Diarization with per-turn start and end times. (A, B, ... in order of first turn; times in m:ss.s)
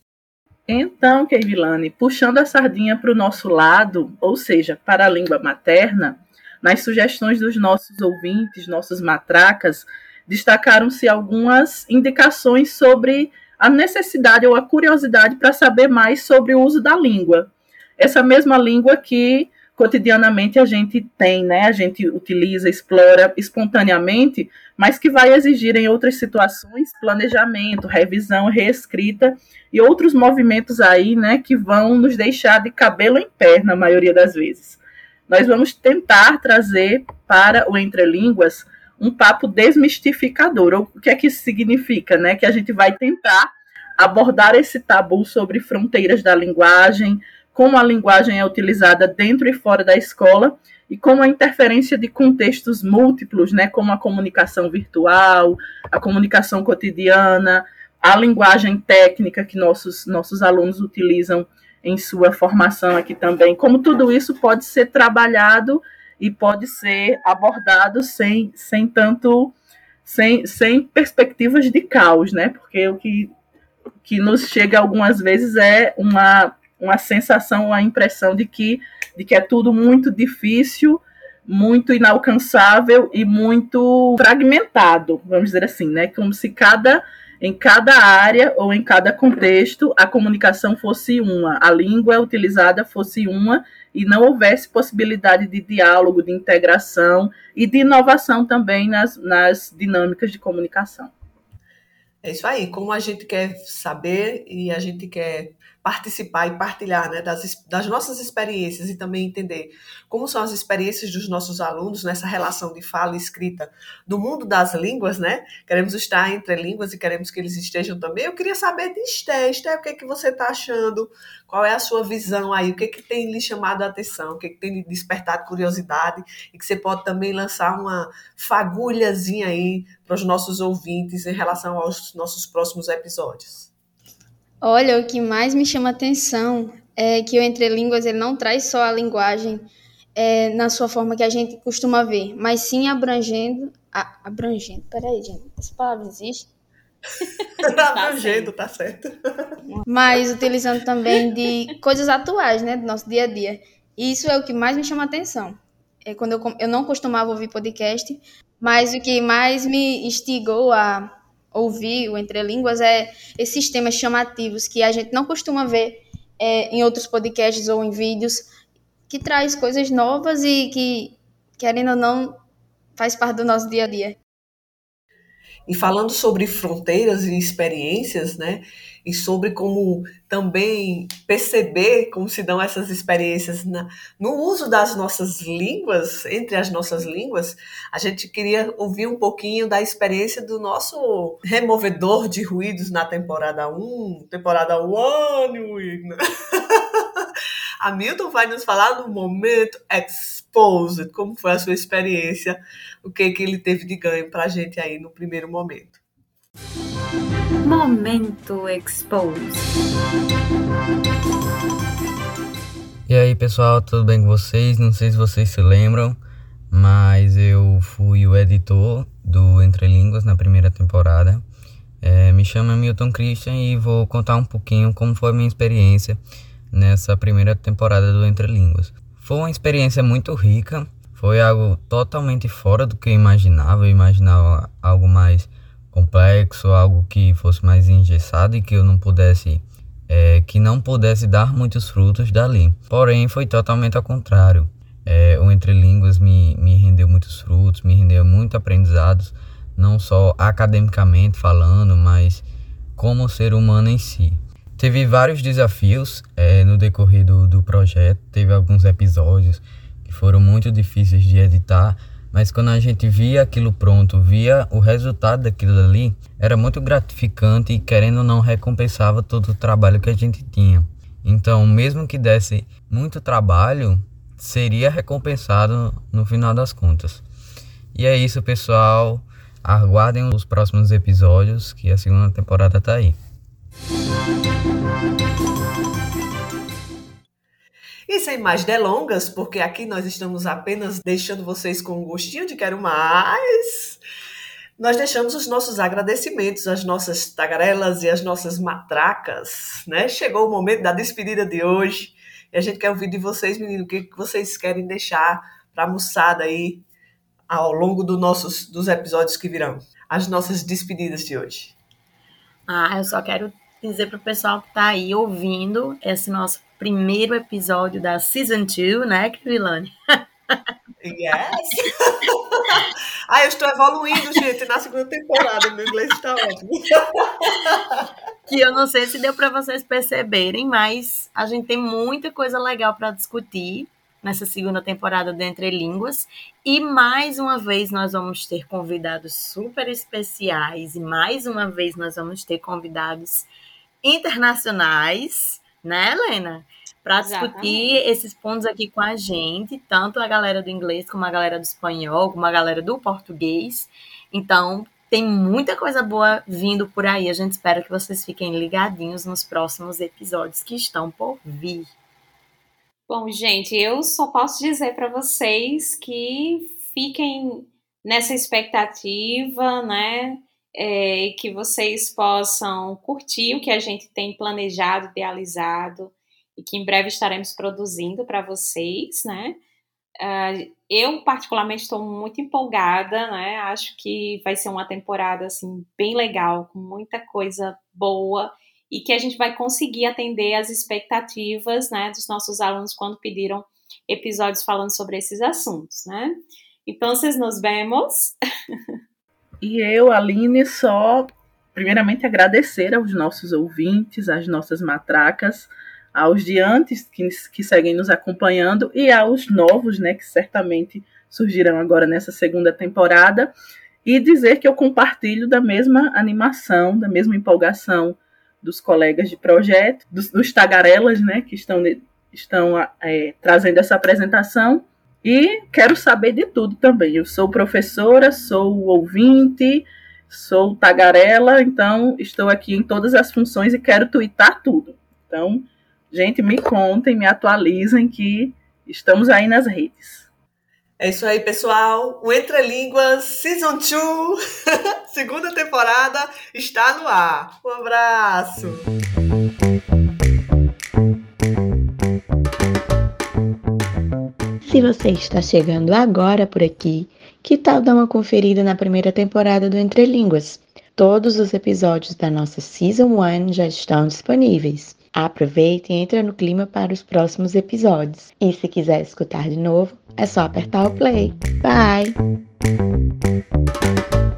0:00.7-1:13.3 A
1:14.0-1:41.1 A
1:42.2-2:13.7 B
2:14.6-2:26.5 C
2:27.2-2:28.5 D
2:27.8-2:29.0 B
2:29.7-2:48.4 C
2:49.1-2:52.4 C
2:53.0-2:54.2 C
2:55.7-3:16.2 B
3:17.8-3:26.0 B
3:27.6-3:29.7 E
3:33.1-3:36.2 F
3:36.7-3:41.4 F
3:42.0-3:46.2 F
3:46.7-4:37.2 F
4:37.9-4:43.2 F
4:48.1-4:54.0 B
4:54.8-5:06.9 B
5:07.5-5:11.7 B
5:12.7-5:19.9 G
5:21.0-5:21.7 B
5:23.3-5:27.2 B
5:28.5-5:43.5 G
5:44.0-6:01.9 G
5:47.2-5:48.0 D
6:03.1-6:19.6 D
6:20.2-6:36.3 D
6:36.8-6:38.4 D
6:39.6-6:53.5 A
6:54.0-7:20.2 A
7:21.0-7:24.4 B
7:25.2-7:28.9 B
7:34.7-7:52.1 H